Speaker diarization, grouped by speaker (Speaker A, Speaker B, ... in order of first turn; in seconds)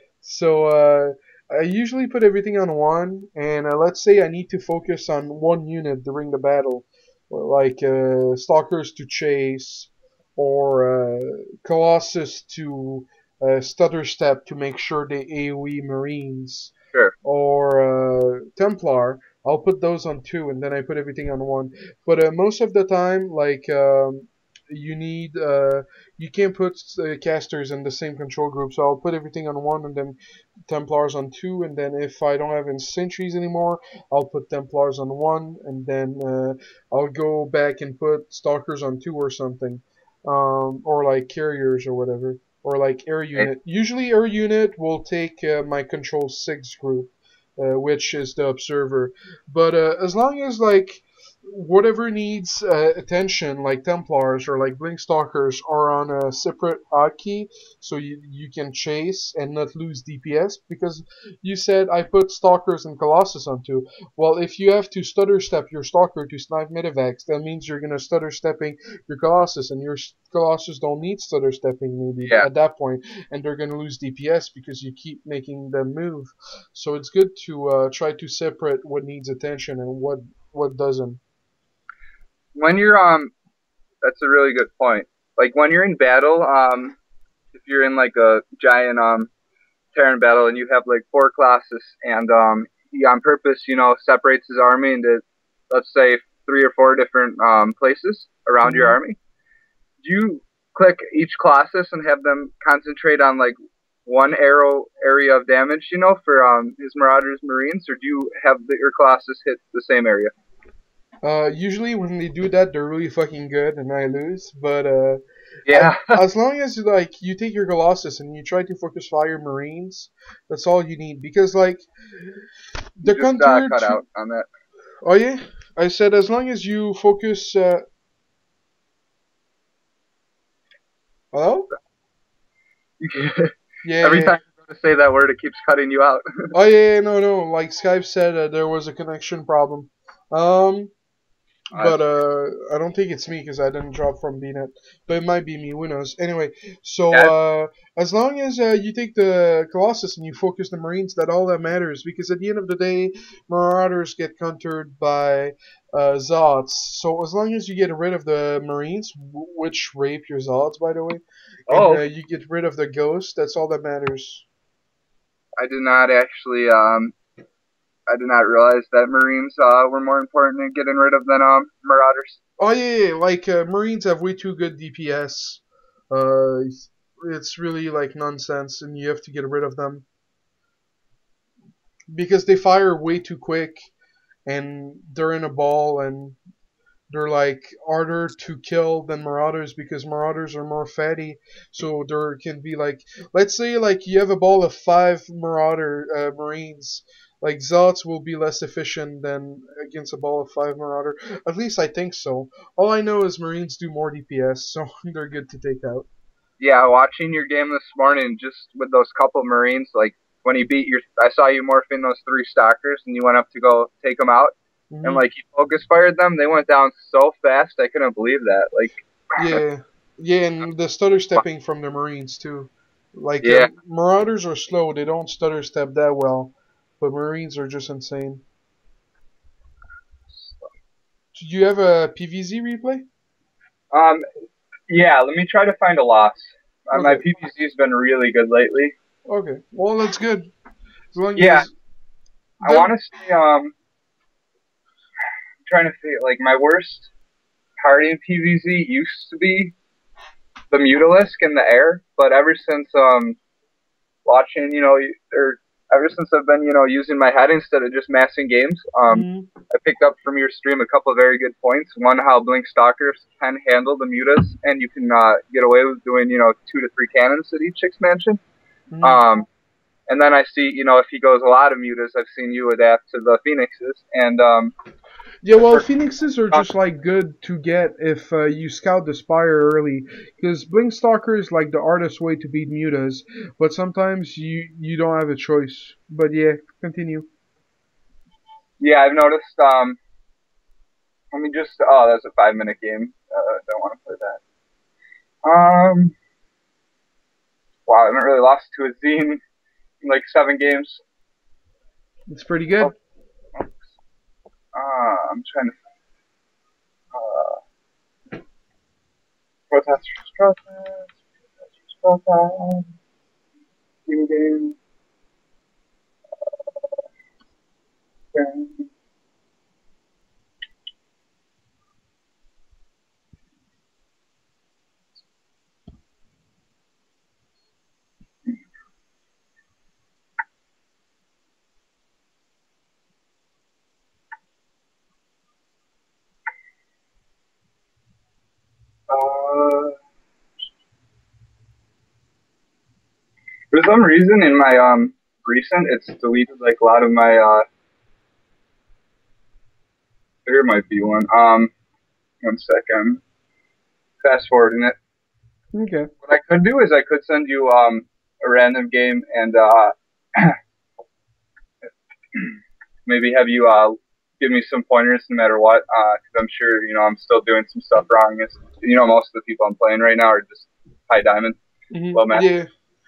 Speaker A: 0.2-16.7, 17.2-81.2, 98.6-99.0, 111.2-121.9, 123.0-124.0, 125.0-127.8, 131.3-131.7, 133.8-134.4, 136.5-140.9, 141.7-164.5, 172.6-180.1, 182.1-183.9, 184.4-186.4, 187.1-206.1, 214.9-215.2, 219.3-228.4, 231.3-233.0, 236.9-237.2, 239.3-240.5, 241.1-241.7, 242.6-242.9, 259.1-259.5, 268.9-269.2, 275.4-287.3, 302.3-302.9, 355.7-356.1, 371.9-372.7
Speaker B: 82.5-83.3, 84.0-87.0, 87.5-89.3, 89.9-99.2, 100.0-110.3, 115.7-116.2, 123.0-124.5, 133.0-136.5, 161.7-162.0, 165.6-167.1, 168.1-172.4, 206.6-219.6, 223.4-223.7, 230.4-230.7, 233.9-234.2, 234.9-238.9, 241.3-241.7, 242.6-243.7, 245.7-247.1, 247.8-249.7, 250.7-253.4, 254.2-268.4, 269.0-269.4, 270.1-274.7, 275.6-275.8, 288.8-290.0, 291.3-294.4, 295.4-296.1, 297.9-299.4, 300.0-301.0, 303.6-303.8, 304.7-305.8, 307.1-307.6, 309.7-311.1, 311.9-312.9, 314.1-314.8, 318.3-318.9, 339.1-339.9, 343.7-347.6, 350.4-351.7, 352.4-353.2, 354.2-354.9, 356.2-360.6, 362.3-371.6, 372.1-372.4